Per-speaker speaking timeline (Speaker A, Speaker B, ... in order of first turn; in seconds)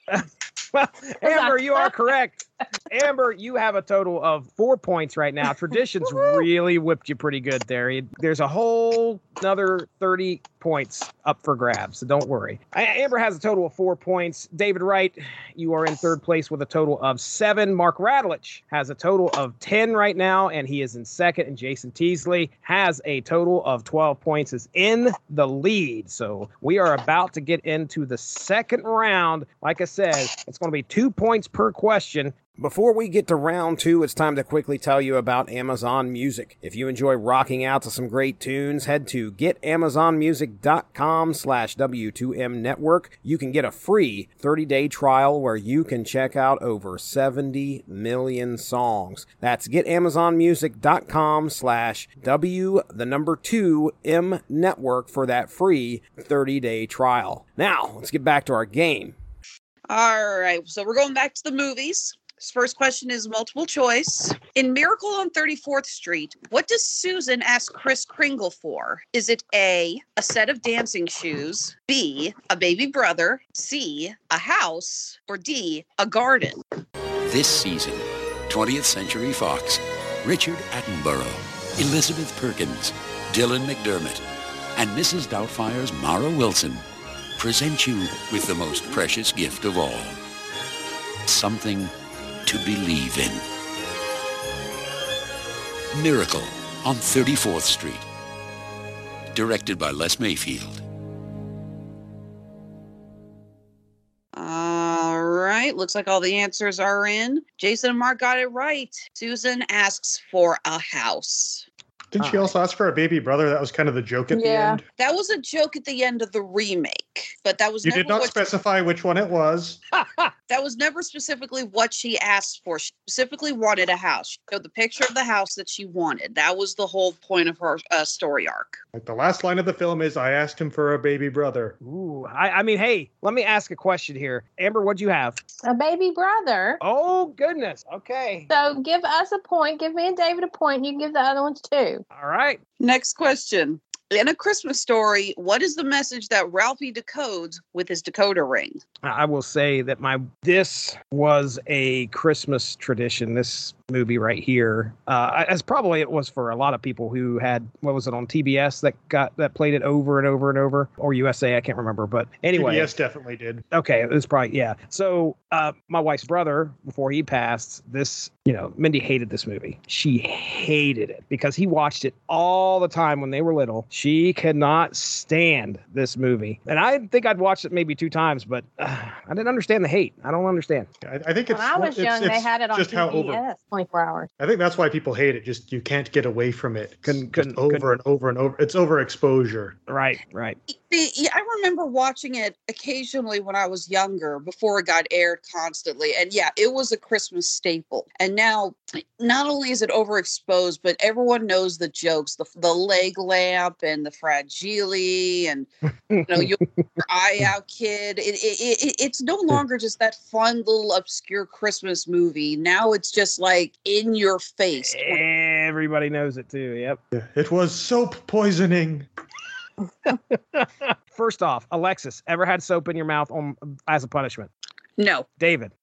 Speaker A: 0.1-59.1, 112.2-112.5, 120.0-120.2, 131.8-135.4, 136.8-138.5, 142.1-142.6, 149.0-162.9, 163.7-180.9, 187.1-187.9, 189.9-190.6, 206.1-206.4, 214.8-217.0, 220.1-224.5, 225.4-225.7
Speaker B: 1.2-1.9, 114.3-114.8, 135.7-136.8, 138.5-142.0, 181.5-184.3
Speaker C: 59.9-76.6, 104.3-111.7, 115.0-118.4, 120.5-128.8, 142.8-148.8, 190.7-205.7, 206.2-215.2, 225.0-225.3
Speaker D: 77.2-84.2, 84.8-86.8, 87.4-90.2, 91.3-91.9, 92.5-93.5, 95.9-98.1, 99.3-100.8
Speaker E: 112.1-114.8, 117.8-119.8, 128.9-131.8, 162.5-163.6, 181.0-183.4, 184.4-189.8, 217.1-219.1